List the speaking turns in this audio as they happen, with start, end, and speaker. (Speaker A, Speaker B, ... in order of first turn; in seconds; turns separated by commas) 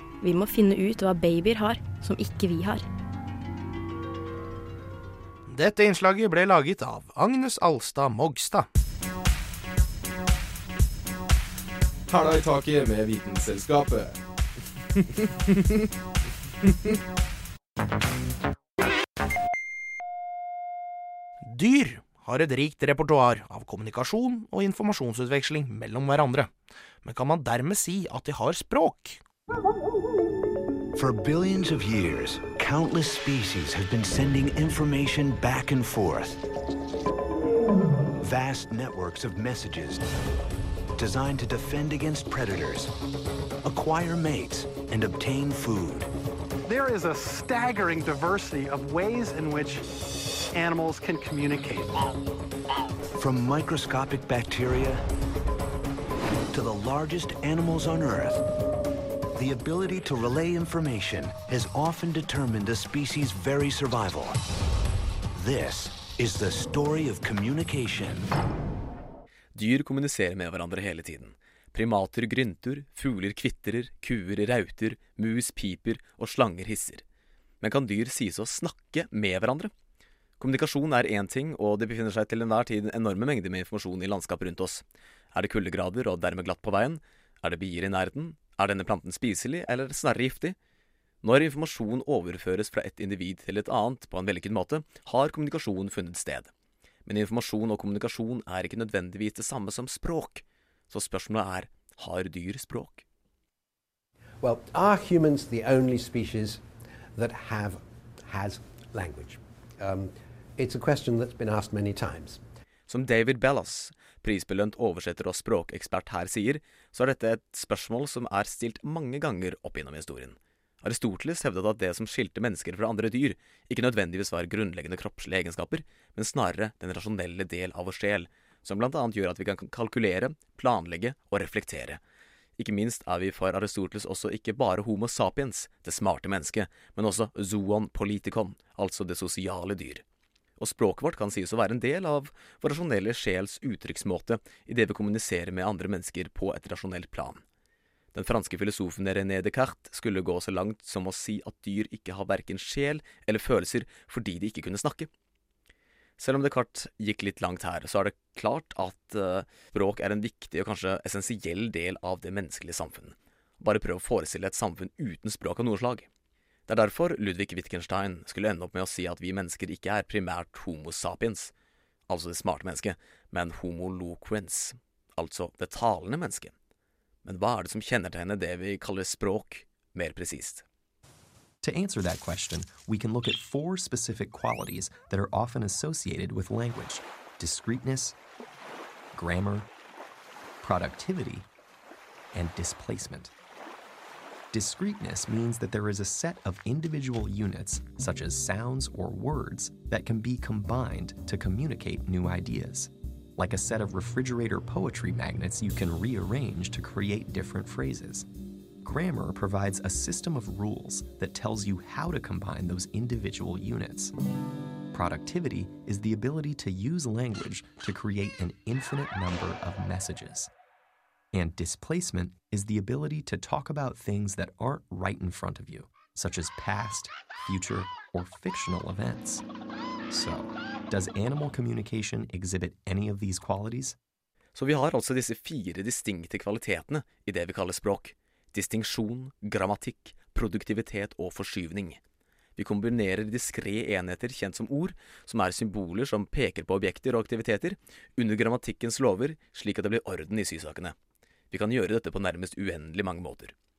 Speaker A: 0.2-2.9, Speaker B: 5.5-8.7, Speaker C: 12.1-14.2, Speaker C: 15.2-15.8, Speaker C: 16.6-16.9, Speaker B: 21.4-26.5, Speaker B: 27.0-29.2, Speaker D: 30.9-36.4, Speaker D: 38.2-40.0, Speaker D: 40.9-42.9, Speaker D: 43.6-46.1, Speaker E: 46.6-49.8, Speaker E: 50.5-52.0, Speaker D: 53.1-55.0, Speaker D: 56.5-58.4, Speaker D: 59.3-64.4, Speaker D: 65.3-68.3, Speaker F: 69.5-77.0, Speaker F: 77.6-79.7, Speaker F: 80.4-90.5, Speaker F: 91.2-96.5, Speaker F: 97.0-103.0, Speaker G: 104.4-106.6, Speaker G: 107.1-112.4, Speaker F: 112.9-132.0, Speaker F: 132.6-140.0, Speaker F: 140.6-147.4, Speaker F: 148.1-155.1, Speaker F: 156.2-166.1, Speaker F: 166.7-171.5, Speaker F: 172.1-176.5, Speaker F: 177.2-180.6, Speaker H: 181.6-188.1, Speaker H: 189.1-189.7, Speaker H: 190.6-191.5, Speaker H: 192.3-193.3, Speaker H: 194.5-208.3, Speaker H: 208.8-214.1, Speaker H: 214.9-220.5, Speaker H: 221.3-229.4, Speaker H: 230.1-233.9, Speaker F: 234.5-242.0, Speaker F: 242.6-250.9, Speaker F: 251.5-253.5